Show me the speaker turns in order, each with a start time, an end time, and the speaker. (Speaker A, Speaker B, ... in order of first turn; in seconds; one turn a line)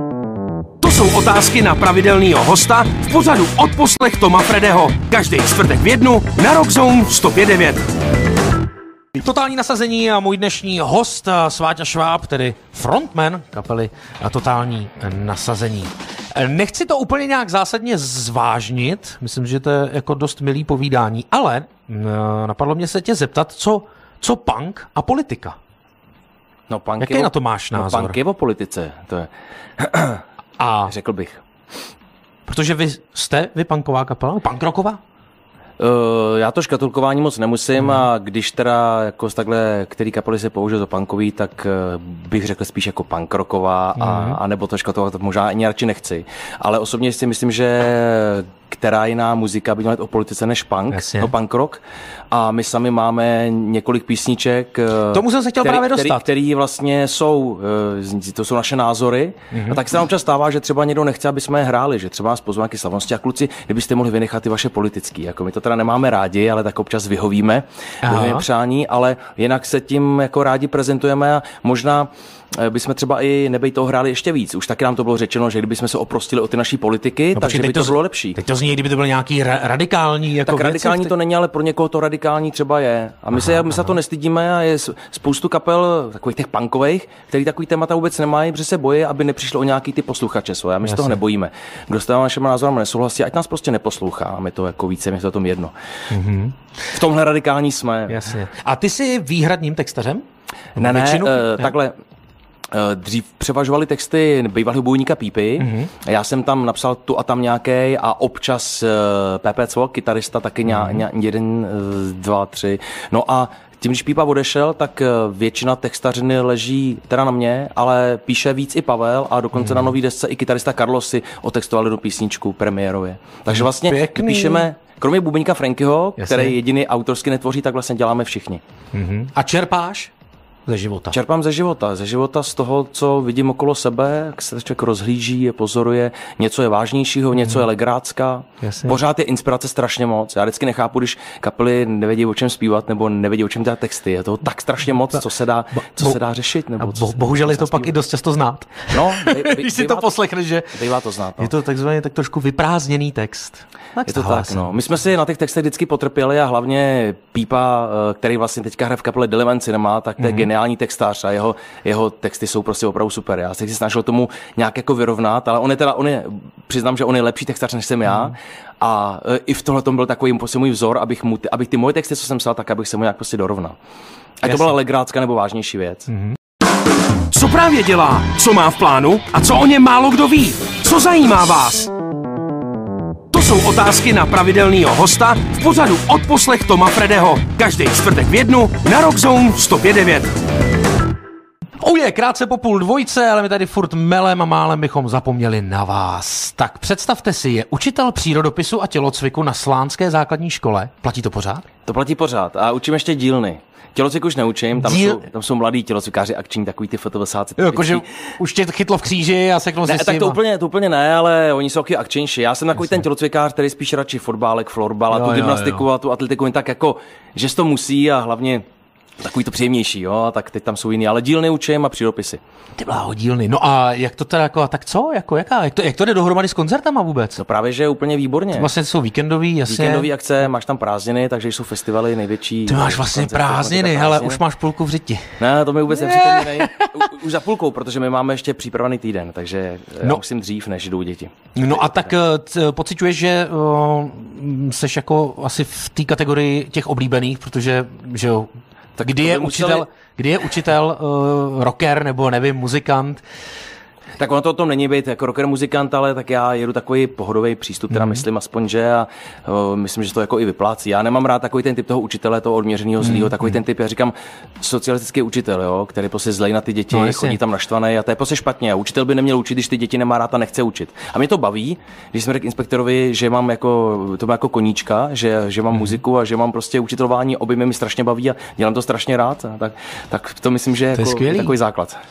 Speaker A: 0.8-7.9
Speaker B: 9.2-25.6
Speaker C: 26.7-30.2
Speaker B: 27.0-28.2
Speaker B: 30.6-30.9
Speaker C: 30.9-31.4
Speaker B: 32.5-35.0
Speaker C: 35.8-78.4
Speaker B: 37.8-38.0
Speaker B: 44.0-44.4
Speaker B: 50.9-51.3
Speaker B: 55.1-56.3
Speaker B: 59.5-59.8
Speaker B: 68.0-68.5
Speaker B: 77.3-81.2
Speaker C: 80.5-95.7
Speaker B: 90.8-91.2
Speaker B: 96.1-96.5
Speaker C: 96.9-98.3
Speaker B: 98.1-100.2
Speaker B: 100.8-101.7
Speaker C: 100.8-101.9
Speaker C: 102.7-128.6
Speaker B: 105.6-105.9
Speaker B: 110.7-111.0
Speaker B: 119.5-119.9
Speaker B: 123.5-124.7
Speaker B: 126.2-126.5
Speaker B: 128.9-130.1
Speaker B: 130.7-131.2
Speaker C: 131.1-147.9
Speaker B: 138.6-139.0
Speaker B: 145.8-146.2
Speaker B: 146.8-150.8
Speaker C: 148.9-150.1
Speaker C: 150.7-151.5
Speaker B: 151.4-154.7
Speaker C: 154.1-173.8
Speaker B: 160.2-160.5
Speaker B: 168.1-168.3
Speaker C: 174.4-176.1
Speaker B: 174.4-174.7
Speaker B: 176.1-176.4
Speaker A: 177.3-181.9
Speaker A: 183.3-190.4
Speaker B: 191.8-201.7
Speaker C: 201.9-208.1
Speaker B: 204.8-205.3
Speaker B: 207.6-210.4
Speaker C: 209.9-218.6
Speaker B: 215.1-215.8
Speaker C: 219.2-222.4
Speaker B: 222.8-227.4
Speaker C: 227.4-228.7
Speaker B: 228.6-230.1
Speaker C: 229.7-234.4
Speaker B: 232.7-237.1
Speaker C: 235.4-242.1
Speaker B: 241.6-253.2
Speaker C: 249.0-249.9
Speaker C: 254.2-282.0
Speaker B: 257.9-258.2
Speaker B: 263.0-263.5
Speaker B: 266.9-267.4
Speaker B: 275.7-276.0
Speaker B: 280.9-281.5